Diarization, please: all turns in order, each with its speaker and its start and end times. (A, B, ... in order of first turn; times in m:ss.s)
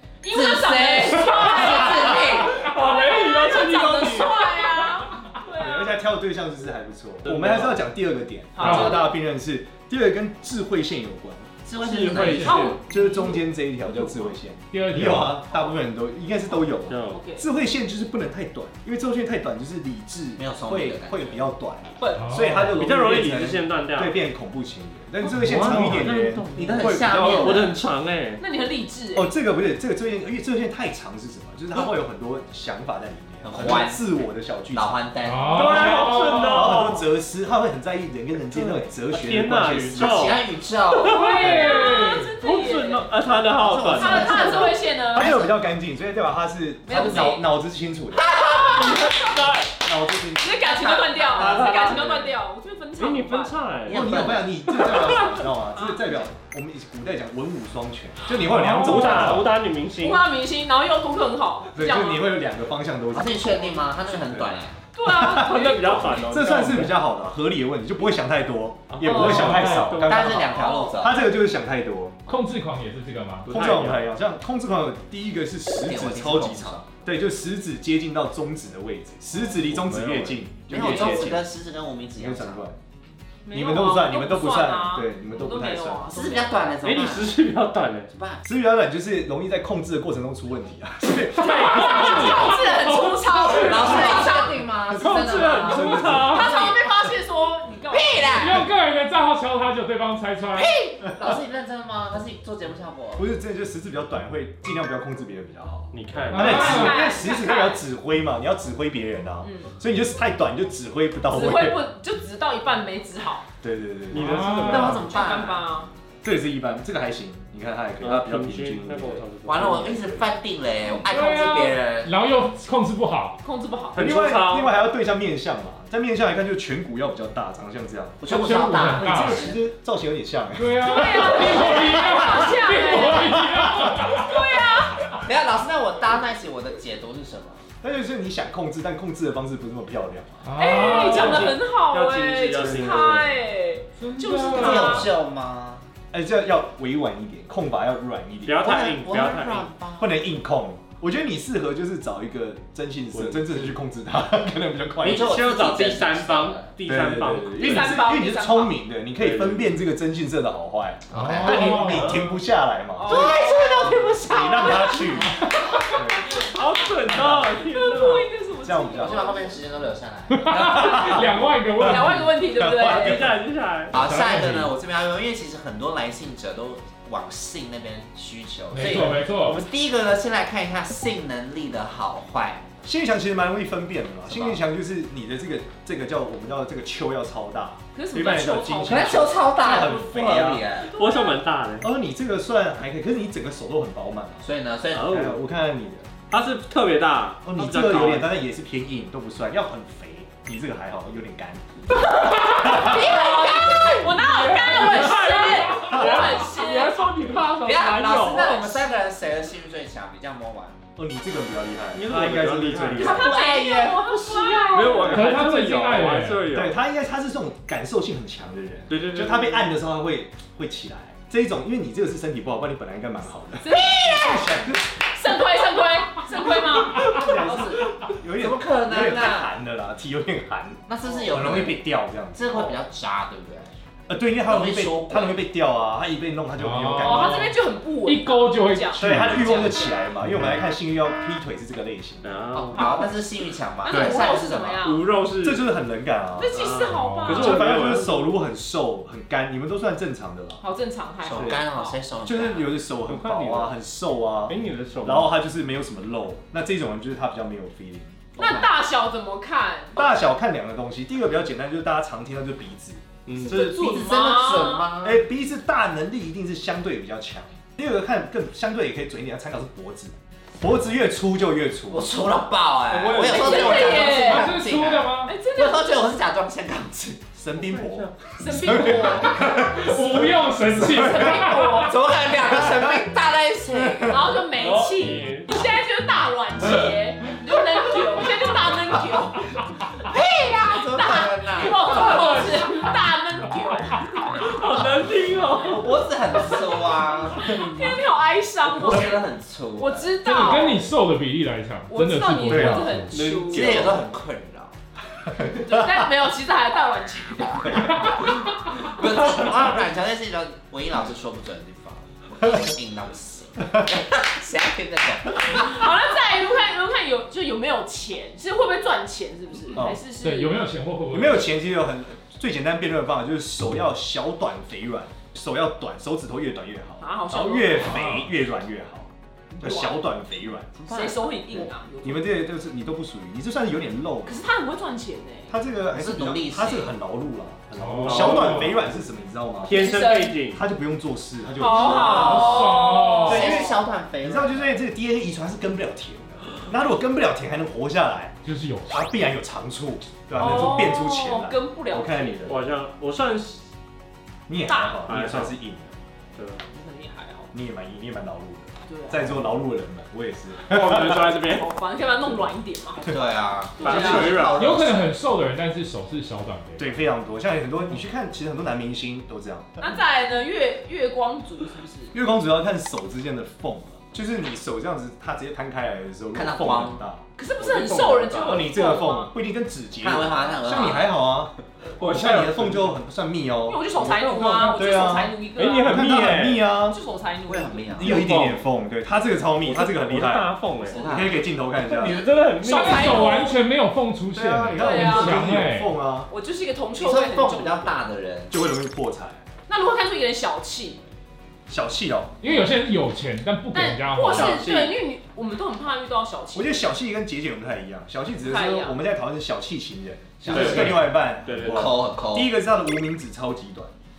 0:00.2-0:06.0 A
0:00.3-0:02.5 B
0:02.1-0:04.3 C
0:05.6-0:11.5 D
0:07.2-0:07.8 C
0:08.6-0:08.9 C
0:08.6-0:09.0 E
0:08.6-0:09.1 A
0:11.6-0:12.5 B
0:11.8-0:12.8 C
0:12.1-0:12.7 E
0:12.4-0:13.5 A
0:12.7-0:27.8 D
0:14.7-0:15.4 E
0:16.8-0:17.2 C
0:17.1-0:17.4 A
0:20.4-0:21.5 B
0:22.0-0:22.3 A
0:22.2-0:22.8 E
0:22.8-0:24.2 C
0:25.2-0:28.4 C
0:25.4-0:26.0 E
0:26.5-0:27.8 B
0:28.4-0:29.3 A
0:29.1-0:35.0 D
0:33.4-0:34.0 B
0:34.7-0:36.1 B
0:35.2-0:36.8 E
0:35.5-0:37.0 C
0:35.5-0:40.4 D
0:38.5-0:44.6 C
0:39.9-0:41.2 B
0:41.0-0:43.1 A
0:41.2-0:42.3 E
0:43.5-0:45.6 B
0:43.9-0:45.3 A
0:45.1-0:48.3 D
0:46.8-0:47.4 A
0:46.9-0:47.3 B
0:48.1-0:49.2 B
0:48.4-0:49.2 A
0:48.7-0:49.7 C
0:49.8-0:50.7 D
0:50.4-0:53.7 A
0:50.6-0:51.7 B
0:51.3-0:52.1 C
0:51.4-0:52.3 D
0:53.0-0:54.2 C
0:53.8-0:54.8 B
0:53.9-0:59.5 D
0:55.0-0:56.3 A
0:58.4-0:59.5 E
0:58.8-1:00.3 C
1:00.0-1:02.3 A
1:01.8-1:05.6 D
1:03.1-1:04.8 B
1:04.9-1:06.3 A
1:05.5-1:07.0 C
1:06.1-1:12.2 D
1:08.9-1:10.6 C
1:09.0-1:09.6 A
1:09.2-1:10.0 E
1:10.0-1:11.2 B
1:10.5-1:11.0 A
1:12.3-1:13.5 E
1:13.4-1:21.5 D
1:13.4-1:14.1 C
1:15.8-1:16.9 B
1:19.5-1:21.4 C
1:20.7-1:22.6 B
1:22.2-1:22.8 D
1:23.4-1:26.8 A
1:23.5-1:26.2 D
1:26.1-1:27.4 B
1:26.8-1:28.1 C
1:28.1-1:28.4 B
1:28.4-1:32.5 D
1:31.4-1:34.2 E
1:31.5-1:34.6 A
1:33.5-1:36.8 B
1:34.9-1:36.6 C
1:35.3-1:36.6 D
1:36.2-1:38.3 A
1:37.9-1:38.6 B
1:38.3-1:40.8 E
1:40.5-1:43.2 B
1:43.2-1:51.8 D
1:45.9-1:46.7 C
1:46.3-1:47.1 E
1:46.3-1:47.8 A
1:49.4-1:49.7 A
1:51.3-1:53.4 A
1:53.6-1:54.7 D
1:54.1-1:55.0 C
1:54.2-1:54.9 E
1:54.7-1:55.6 B
1:54.8-1:55.9 A
1:56.2-2:00.3 D
1:58.0-2:00.0 C
1:59.4-2:02.1 B
2:01.0-2:03.4 E
2:03.4-2:04.0 A
2:03.9-2:04.8 C
2:04.0-2:08.3 D
2:08.2-2:09.6 B
2:08.2-2:09.5 E
2:08.9-2:11.8 D
2:10.6-2:14.5 E
2:10.8-2:15.1 A
2:13.3-2:13.9 D
2:15.2-2:17.6 B
2:17.8-2:21.4 D
2:20.4-2:21.5 E
2:20.6-2:25.1 A
2:21.1-2:23.3 C
2:22.6-2:23.2 D
2:24.0-2:25.1 E
2:24.5-2:25.9 B
2:26.1-2:28.9 D
2:28.4-2:29.7 C
2:28.6-2:30.1 B
2:30.0-2:35.3 D
2:33.1-2:33.7 C
2:35.0-2:38.0 C
2:35.0-2:36.7 B
2:36.8-2:43.3 D
2:37.5-2:38.8 A
2:39.2-2:39.8 C
2:41.1-2:41.9 B
2:41.1-2:42.1 E
2:41.8-2:42.2 C
2:43.0-2:46.4 A
2:43.1-2:45.9 B
2:44.3-2:46.5 D
2:46.3-2:48.3 C
2:47.1-2:47.6 D
2:47.7-2:49.6 A
2:48.6-2:49.5 D
2:49.0-2:50.6 B
2:50.3-2:52.4 E
2:50.5-2:51.3 D
2:50.7-2:51.1 A
2:51.8-2:53.4 A
2:51.9-2:53.4 D
2:52.8-2:54.0 C
2:53.9-3:02.7 B
2:54.0-2:54.7 E
2:58.7-2:59.6 E
3:02.8-3:10.7 D
3:04.3-3:04.6 B
3:07.9-3:09.9 A
3:08.9-3:10.9 B
3:10.9-3:11.4 A
3:10.9-3:11.9 C
3:11.8-3:14.4 D
3:14.4-3:15.1 B
3:14.9-3:15.4 C
3:15.0-3:16.1 D
3:16.3-3:18.3 C
3:17.4-3:21.7 D
3:22.2-3:22.9 C
3:22.2-3:27.0 A
3:22.6-3:23.0 D
3:22.7-3:24.2 B
3:24.1-3:28.8 C
3:25.8-3:26.3 D
3:27.6-3:30.8 B
3:31.0-3:33.3 D
3:31.9-3:33.3 C
3:32.9-3:35.2 B
3:33.0-3:35.2 A
3:34.7-3:36.8 C
3:35.1-3:36.5 E
3:36.5-3:44.8 D
3:38.9-3:39.8 C
3:43.6-3:47.8 A
3:47.0-3:52.7 D
3:47.3-3:47.8 B
3:48.4-3:49.5 B
3:50.9-3:51.8 B
3:52.3-3:53.7 B
3:54.1-3:57.5 D
3:54.4-3:55.4 B
3:56.6-3:59.6 E
3:57.0-4:00.0 A
3:58.9-4:02.3 D
3:59.3-3:59.8 B
4:00.2-4:00.6 E
4:02.2-4:03.0 C
4:02.5-4:04.8 B
4:02.7-4:03.1 A
4:03.8-4:05.1 A
4:03.9-4:04.3 D
4:04.8-4:05.7 C
4:05.4-4:06.7 D
4:06.4-4:07.8 A
4:06.5-4:08.4 C
4:06.9-4:07.4 E
4:07.3-4:10.6 D
4:10.6-4:12.0 A
4:11.2-4:12.8 B
4:11.3-4:11.6 C
4:12.2-4:18.2 D
4:13.0-4:13.8 C
4:14.4-4:15.3 C
4:18.3-4:20.0 A
4:18.4-4:18.7 B
4:20.0-4:24.0 D
4:23.2-4:23.6 C
4:23.4-4:25.2 B
4:23.5-4:24.9 A
4:25.0-4:32.1 D
4:31.9-4:37.3 B
4:32.9-4:33.9 C
4:33.3-4:34.5 A
4:33.3-4:35.3 E
4:35.2-4:36.2 A
4:37.3-4:40.3 D
4:37.6-4:38.4 C
4:38.4-4:39.6 A
4:38.8-4:39.5 B
4:39.4-4:41.8 E
4:40.8-4:41.3 D
4:40.9-4:41.9 A
4:41.1-4:44.2 B
4:42.5-4:42.9 D
4:43.8-4:44.3 D
4:44.1-4:49.9 A
4:44.6-4:45.5 C
4:50.1-4:52.6 B
4:50.8-4:54.3 A
4:52.0-4:52.4 C
4:54.4-4:56.5 C
4:55.7-4:57.6 B
4:57.3-4:59.2 A
4:58.7-5:00.1 B
4:59.8-5:00.9 A
5:00.2-5:03.2 E
5:01.9-5:04.0 A
5:02.5-5:03.0 D
5:03.1-5:04.1 C
5:03.4-5:04.7 B
5:05.4-5:08.8 A
5:08.8-5:15.8 B
5:15.4-5:20.6 A
5:19.7-5:20.0 D
5:20.2-5:21.5 E
5:21.1-5:29.1 D
5:27.0-5:28.0 A
5:27.9-5:28.3 E
5:29.5-5:29.9 B
5:29.6-5:30.8 D
5:30.8-5:31.6 B
5:30.9-5:32.4 A
5:32.0-5:34.4 D
5:34.2-5:35.6 A
5:35.5-5:40.0 D
5:35.9-5:36.9 B
5:37.8-5:38.8 E
5:38.0-5:38.7 C
5:39.6-5:40.6 C
5:39.7-5:40.4 A
5:40.5-5:42.6 D
5:41.6-5:43.5 A
5:41.7-5:42.8 B
5:42.0-5:43.7 E
5:43.2-5:48.4 D
5:43.3-5:44.8 B
5:48.4-5:49.0 E
5:48.9-5:52.6 D
5:50.3-5:52.5 A
5:52.4-5:53.6 C
5:54.5-5:55.9 D
5:54.7-5:55.0 A
5:55.0-5:55.6 C
5:56.3-5:56.6 C
5:56.7-5:57.5 A
5:57.5-6:01.3 D
5:58.9-5:59.4 A
6:00.6-6:01.7 C
6:01.5-6:04.4 A
6:03.1-6:05.1 B
6:03.8-6:04.7 C
6:03.8-6:04.4 D
6:04.4-6:07.0 E
6:06.8-6:09.7 D
6:09.8-6:12.1 A
6:12.1-6:17.2 D
6:16.3-6:17.0 B
6:17.4-6:19.3 A
6:17.6-6:18.7 C
6:18.4-6:27.0 D
6:20.0-6:21.1 B
6:21.9-6:23.0 C
6:23.6-6:26.1 A
6:24.3-6:24.8 C
6:25.5-6:26.8 C
6:26.8-6:28.2 A
6:27.5-6:28.1 B
6:27.9-6:32.2 D
6:28.0-6:28.7 C
6:29.6-6:31.0 C
6:30.8-6:31.2 A
6:31.0-6:31.4 B
6:31.8-6:33.4 C
6:32.1-6:33.6 A
6:32.6-6:35.9 E
6:34.3-6:36.3 D
6:34.8-6:35.4 A
6:36.3-6:38.0 A
6:36.9-6:38.6 B
6:38.5-6:39.4 D
6:39.7-6:41.0 A
6:41.7-6:42.4 D
6:42.4-6:44.6 E
6:43.7-6:46.8 A
6:44.3-6:45.0 C
6:46.5-6:53.9 D
6:48.4-6:49.0 A
6:50.5-6:51.9 C
6:50.5-6:51.0 E
6:51.6-6:52.5 B